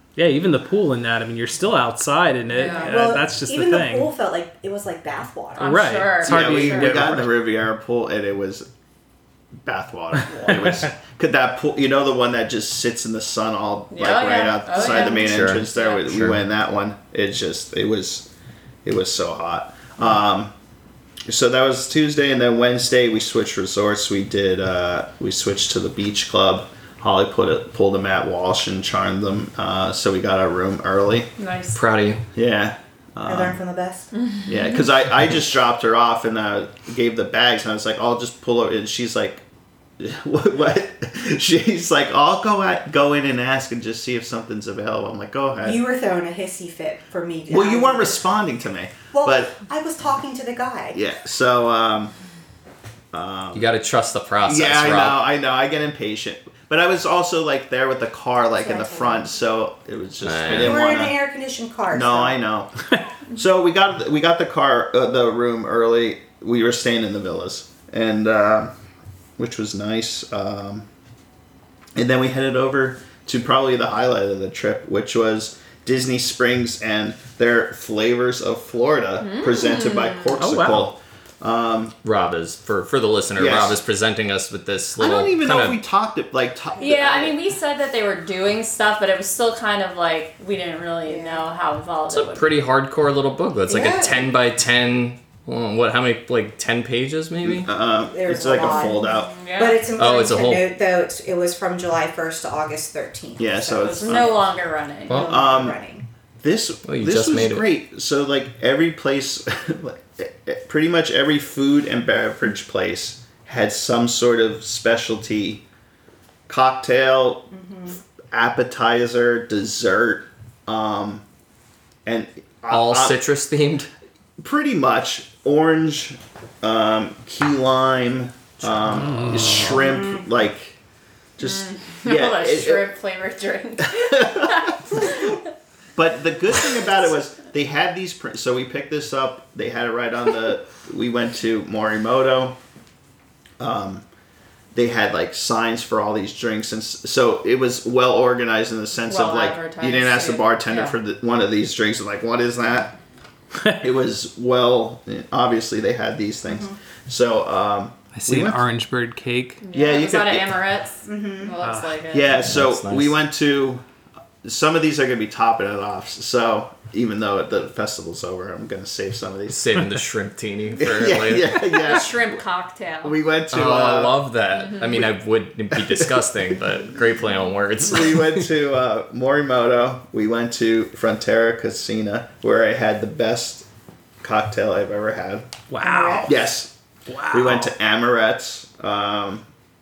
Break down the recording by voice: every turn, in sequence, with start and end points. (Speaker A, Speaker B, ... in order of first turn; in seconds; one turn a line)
Speaker A: 0.2-4.1
Speaker B: 2.5-3.0
Speaker C: 2.6-5.8
Speaker B: 5.6-7.1
Speaker A: 5.6-7.4
Speaker D: 6.2-8.7
Speaker D: 9.6-18.3
Speaker B: 13.9-16.1
Speaker E: 14.8-16.4
Speaker D: 18.9-20.5
Speaker D: 21.3-31.3
Speaker B: 31.4-31.8
Speaker E: 31.7-32.2
Speaker D: 32.3-33.6
Speaker C: 33.3-34.1
Speaker B: 34.1-34.7
Speaker D: 34.5-39.4
Speaker D: 40.0-45.8
Speaker C: 45.6-48.2
Speaker D: 47.5-49.6
Speaker C: 49.1-51.0
Speaker D: 50.9-52.1
Speaker D: 53.1-53.7
Speaker E: 53.5-55.2
Speaker D: 54.5-61.2
Speaker C: 58.6-59.3
Speaker E: 60.2-60.8
Speaker C: 60.5-62.4
Speaker D: 61.9-62.7
Speaker D: 63.3-68.7
Speaker D: 69.4-70.9
Speaker D: 72.0-82.0
Speaker B: 79.2-80.4
Speaker A: 80.4-80.9
Speaker E: 82.0-85.8
Speaker D: 83.4-83.8
Speaker D: 85.0-87.4
Speaker B: 86.8-92.5
Speaker C: 91.0-91.5
Speaker E: 92.1-97.7
Speaker C: 93.7-94.3
Speaker D: 97.4-99.3
Speaker C: 98.1-104.4
Speaker B: 98.7-99.9
Speaker E: 100.0-100.7
Speaker D: 103.4-104.4
Speaker B: 103.8-105.3
Speaker E: 105.1-105.3
Speaker C: 105.1-106.0
Speaker D: 105.1-105.8
Speaker D: 106.4-115.6
Speaker E: 106.9-107.7
Speaker D: 116.5-117.5
Speaker C: 117.5-118.0
Speaker D: 118.3-121.2
Speaker D: 122.0-123.2
Speaker E: 122.7-123.9
Speaker D: 124.4-130.8
Speaker E: 128.6-129.3
Speaker A: 128.9-129.7
Speaker C: 129.5-130.2
Speaker D: 131.4-132.9
Speaker B: 131.4-135.4
Speaker D: 133.8-135.3
Speaker D: 136.0-142.6
Speaker D: 143.6-144.1
Speaker D: 144.7-152.9
Speaker B: 149.1-151.0
Speaker D: 153.8-158.6
Speaker C: 156.5-156.8
Speaker A: 158.2-159.6
Speaker B: 159.6-162.3
Speaker D: 159.7-160.6
Speaker C: 161.1-161.6
Speaker A: 161.6-162.0
Speaker D: 162.1-163.8
Speaker E: 162.3-163.2
Speaker D: 164.4-169.8
Speaker E: 169.5-171.6
Speaker D: 170.8-172.4
Speaker B: 171.7-173.2
Speaker D: 173.0-174.2
Speaker E: 173.5-178.4
Speaker D: 175.8-176.1
Speaker D: 177.8-183.7
Speaker D: 184.2-185.5
Speaker A: 185.7-186.4
Speaker C: 185.8-186.3
Speaker D: 186.3-186.7
Speaker A: 187.1-187.7
Speaker D: 187.3-189.5